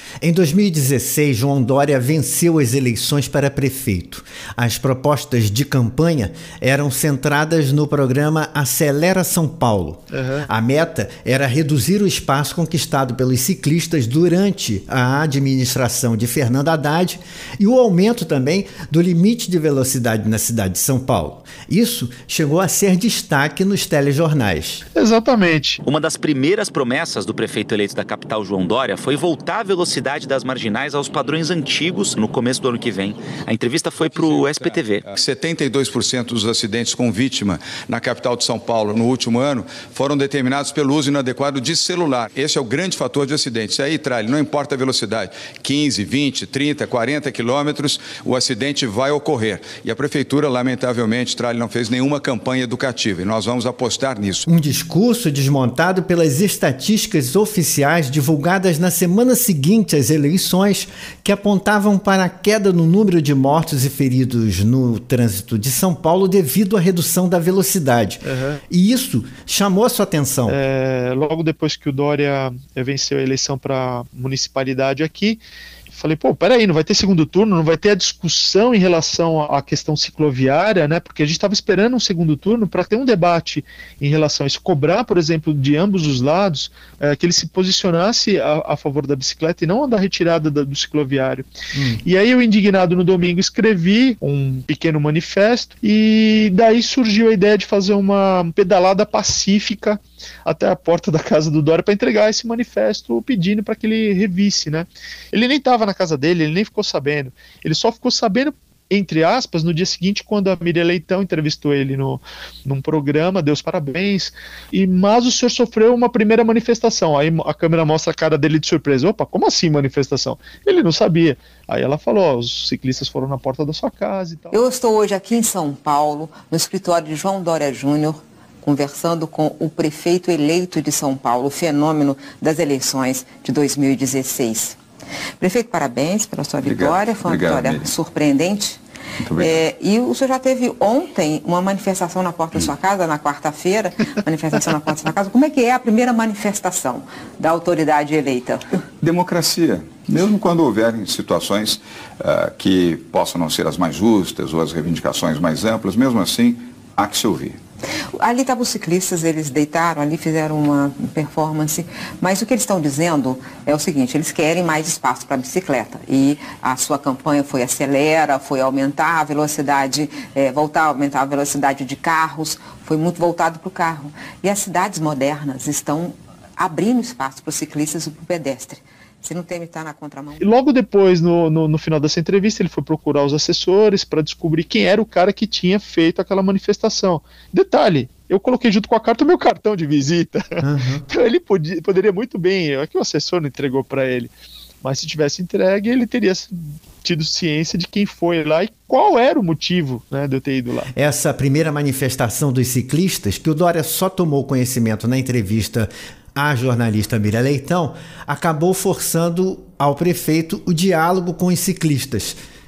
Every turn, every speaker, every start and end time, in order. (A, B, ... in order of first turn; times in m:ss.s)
0:00.2-0:24.8 A
0:10.1-0:10.5 B
0:25.0-0:25.8 B
0:25.8-0:35.1 C
0:34.2-0:54.4 D
0:54.5-1:10.6 A
1:08.2-1:08.6 B
1:10.5-1:31.5 B
1:31.7-1:32.0 A
1:32.0-2:04.5 B
2:04.5-2:14.8 E
2:15.4-2:18.8 E
2:16.6-2:17.9 F
2:19.3-2:19.6 F
2:19.4-2:28.6 E
2:29.0-2:37.6 F
2:38.2-3:00.4 E
3:00.4-3:14.3 B
3:10.6-3:11.1 A
3:14.8-3:20.9 B
3:20.9-3:32.4 A